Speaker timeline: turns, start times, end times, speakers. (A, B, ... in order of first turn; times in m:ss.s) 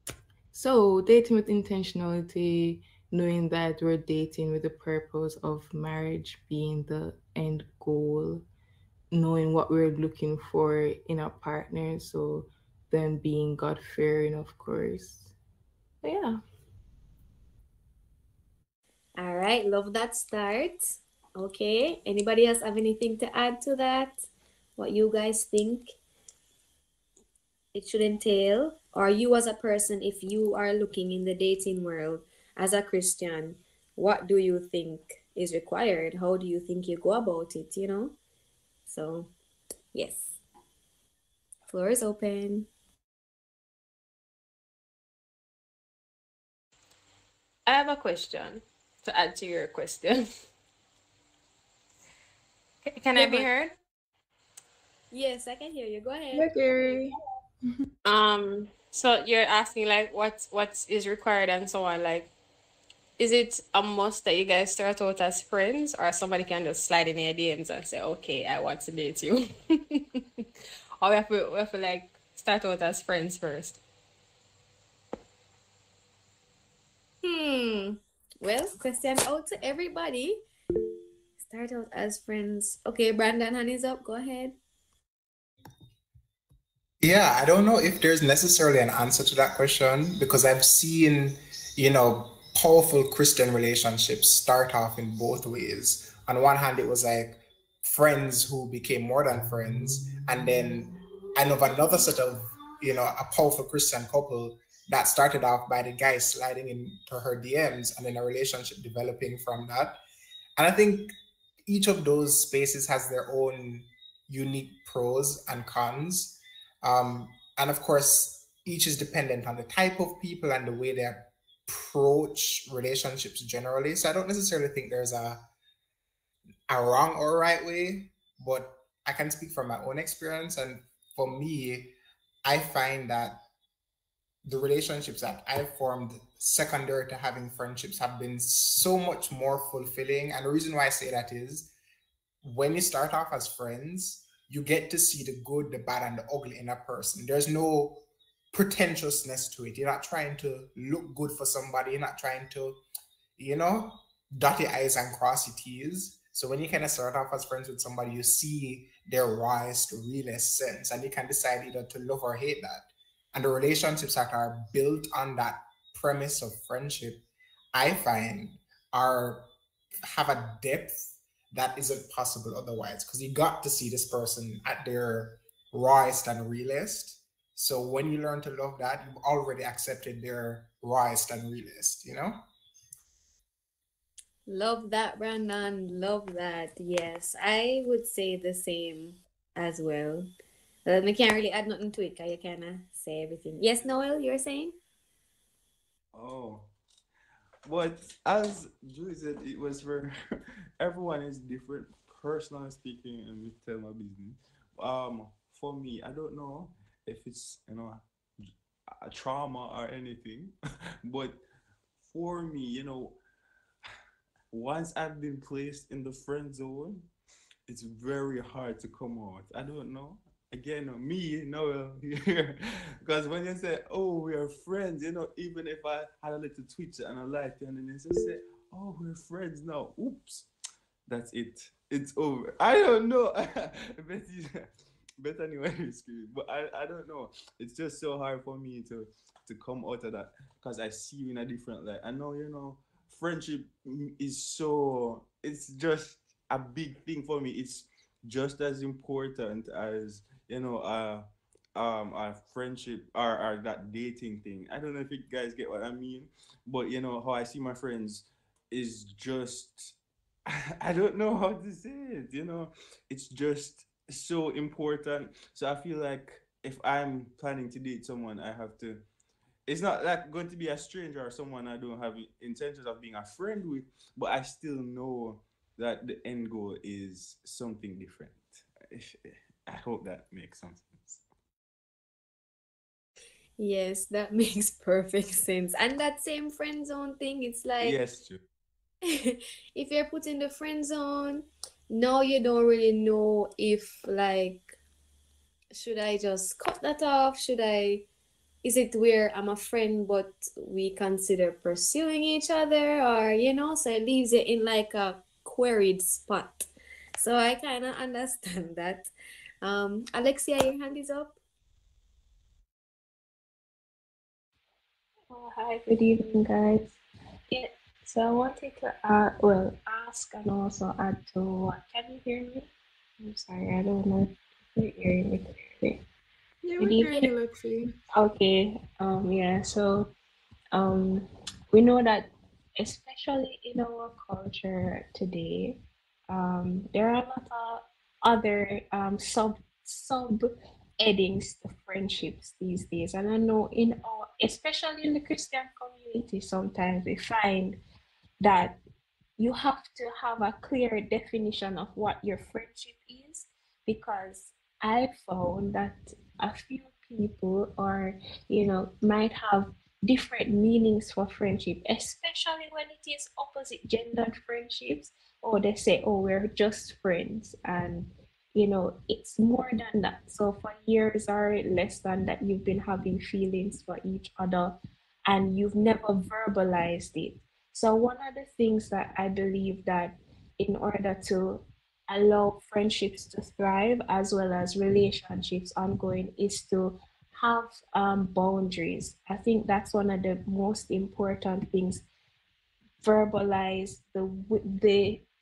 0:00.5-0:08.4 A
0:09.1-0:15.3 A
0:16.0-0:16.4 A
0:19.2-0:26.0 B
0:27.7-0:38.1 B
0:38.9-0:39.3 B
0:39.9-0:40.4 B
0:41.7-0:42.7 B
0:47.7-0:50.3 C
0:52.9-0:53.7 C
0:55.1-0:57.0 B
0:56.3-0:57.2 A
0:58.0-1:02.3 C
1:03.2-1:10.2 C
1:11.0-1:13.8 C
1:17.2-1:18.0 C
1:18.4-1:20.4 B
1:21.4-1:24.5 B
1:27.0-1:50.0 D
1:50.6-1:51.1 D
1:51.7-2:05.4 D
2:06.7-2:13.4 D
2:14.4-2:21.7 D
2:22.4-2:32.8 D
2:33.4-2:49.5 D
2:50.0-3:02.4 D
3:04.5-3:10.3 B
3:10.9-3:14.7 B
3:16.1-3:16.7 E
3:17.6-3:20.1 E
3:20.8-3:31.4 E
3:32.0-3:33.2 E
3:34.5-3:37.1 E
3:37.7-3:50.5 E
3:51.1-3:54.7 E
3:55.2-4:29.0 E
4:29.7-4:41.2 E
4:43.6-4:48.0 B
4:47.8-4:48.4 E
4:49.0-4:54.8 B
4:55.7-4:58.0 B
4:58.6-5:09.1 B
5:09.6-5:11.4 B
5:15.3-5:17.0 F
5:17.5-5:22.7 F
5:23.2-5:26.0 F
5:26.6-5:27.9 A
5:26.8-5:27.3 F
5:28.1-5:30.1 F
5:30.7-5:32.3 F
5:32.8-5:35.8 F
5:36.3-5:47.8 F
5:48.4-5:48.8 F
5:49.4-6:14.7 F
6:15.3-6:32.0 F
6:33.0-6:35.2 F